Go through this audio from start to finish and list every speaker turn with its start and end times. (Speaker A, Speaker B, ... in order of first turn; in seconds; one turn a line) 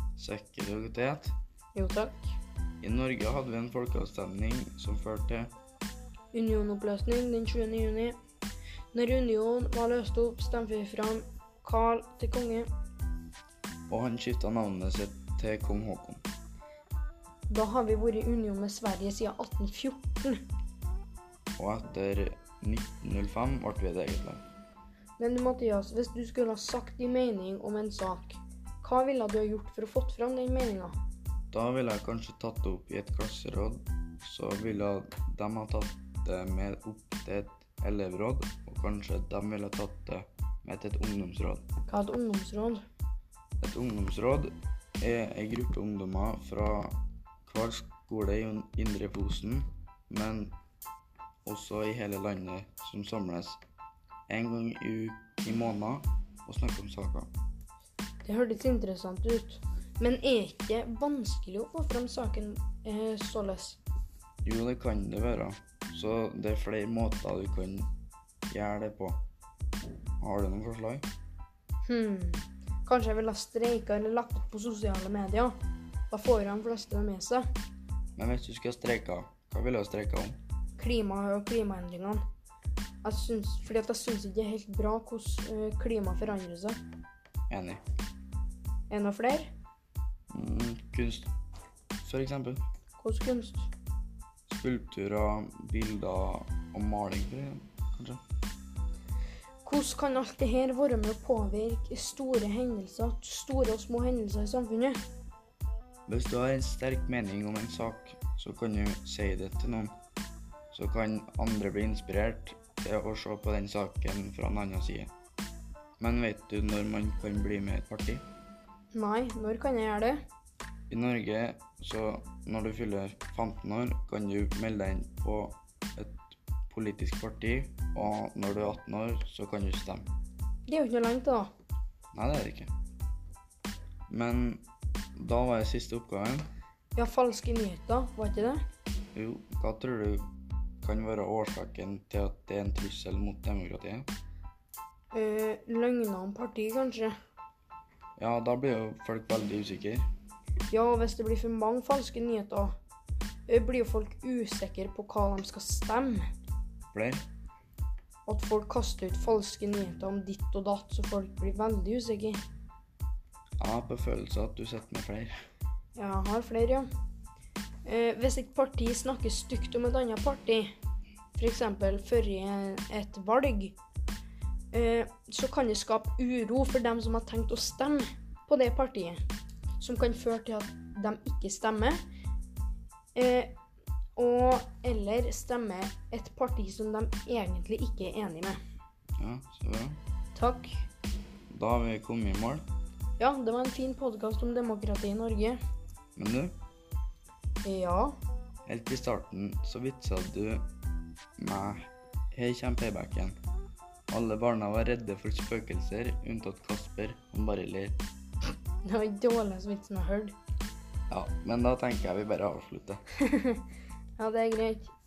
Speaker A: 0.2-1.4
Speaker B: 1.7-2.4
Speaker A: 2.8-5.5
Speaker B: 6.3-8.2
Speaker B: 8.9-12.7
Speaker A: 13.9-16.2
Speaker B: 17.5-20.4
Speaker A: 21.6-24.4
Speaker B: 25.2-30.9
Speaker A: 31.5-41.6
Speaker B: 41.9-42.8
Speaker A: 43.6-46.9
Speaker A: 47.5-50.5
Speaker A: 51.4-53.6
Speaker A: 54.3-57.3
Speaker B: 58.2-63.8
Speaker A: 64.4-67.9
Speaker A: 68.5-69.2
Speaker A: 70.2-71.0
Speaker B: 71.9-75.5
Speaker B: 76.1-77.5
Speaker A: 78.2-80.4
Speaker B: 80.8-82.2
Speaker B: 83.0-86.8
Speaker A: 87.5-87.8
Speaker B: 88.9-89.5
Speaker A: 90.3-91.3
Speaker A: 92.0-92.6
Speaker B: 93.0-93.7
Speaker A: 94.5-98.2
Speaker B: 99.6-105.0
Speaker A: 106.1-110.0
Speaker A: 110.7-115.1
Speaker A: 116.0-118.2
Speaker B: 118.9-120.2
Speaker A: 120.9-130.1
Speaker B: 130.7-131.5
Speaker A: 132.1-132.7
Speaker A: 134.1-134.6
Speaker A: 135.2-136.5
Speaker B: 136.9-138.6
Speaker A: 139.1-140.2
Speaker A: 140.8-144.1
Speaker B: 145.1-147.1
Speaker A: 148.2-150.1
Speaker B: 150.7-152.7
Speaker B: 153.5-156.2
Speaker A: 156.9-157.2
Speaker B: 158.3-162.4
Speaker A: 163.6-165.3
Speaker B: 165.9-166.8
Speaker B: 167.8-170.7
Speaker B: 171.3-173.8
Speaker B: 174.7-179.2
Speaker B: 179.8-182.0
Speaker B: 183.1-183.5
Speaker B: 184.2-188.6
Speaker A: 189.2-190.0
Speaker B: 190.3-190.8
Speaker A: 191.5-192.6
Speaker B: 193.2-195.6
Speaker A: 196.2-196.5
Speaker B: 197.6-198.1
Speaker A: 198.7-200.7
Speaker A: 201.4-203.3
Speaker A: 204.1-208.0
Speaker B: 208.8-210.3
Speaker A: 211.1-213.0
Speaker B: 213.2-213.6
Speaker B: 214.2-214.9